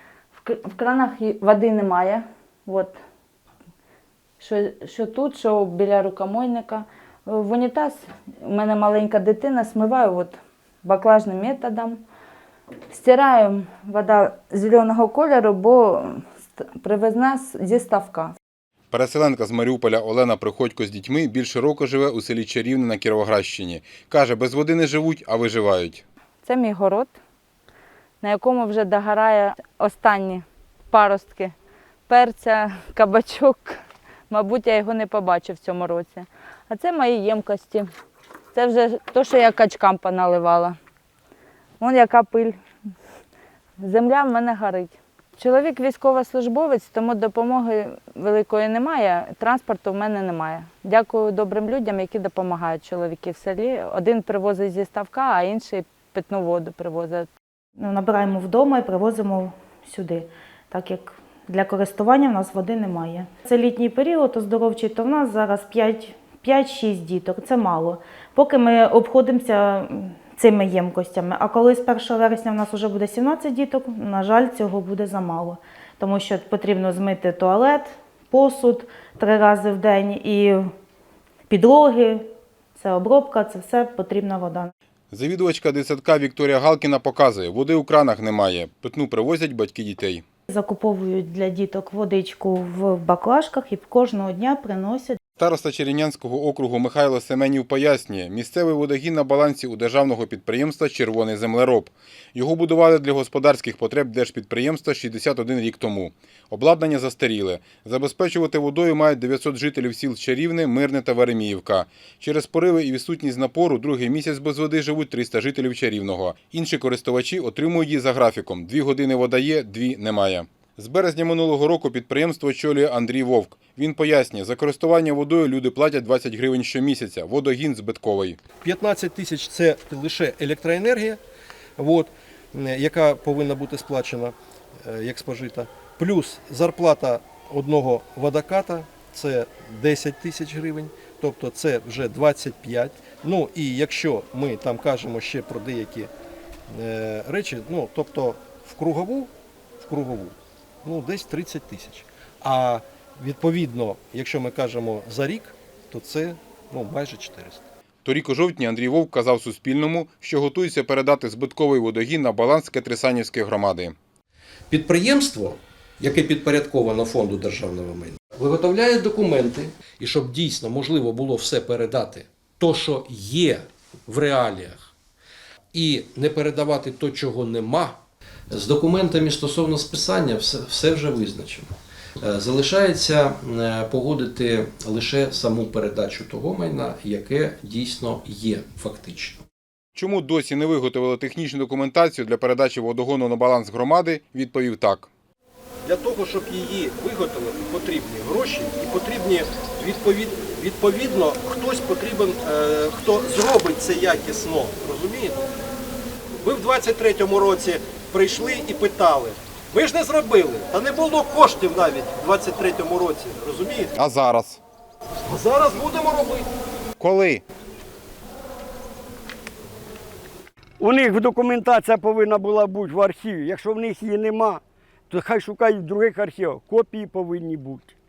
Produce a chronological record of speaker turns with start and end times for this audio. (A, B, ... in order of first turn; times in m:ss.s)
0:00.4-0:03.0 A
0:04.4-0:12.0 A
0:12.9-0:18.3 A
0:18.9-0:26.0 B
0:26.4-0:27.1 A
0:28.2-0:31.5 A
0:32.1-0:33.8 A
0:34.3-0:37.9 A
0:38.5-0:40.8 A
0:41.8-0:42.6 A
0:43.8-0:57.3 A
0:57.8-1:20.7 C
1:21.5-1:22.2 C
1:22.8-1:24.7 C
1:25.1-1:30.2 B
1:30.5-1:35.2 C
1:35.4-2:08.4 B
2:08.6-2:11.2 D
2:11.8-2:26.1 D
2:26.7-2:37.6 D
2:38.0-2:43.9 B
2:44.7-2:54.9 E
2:55.7-2:58.0 E
2:58.5-3:01.7 E
3:02.2-3:09.4 E
3:09.9-3:15.1 B
3:15.8-3:25.4 D
3:26.4-3:34.0 D
3:34.0-3:34.6 B
3:35.2-3:36.5 D
3:37.0-3:37.4 B
3:40.8-3:47.9 F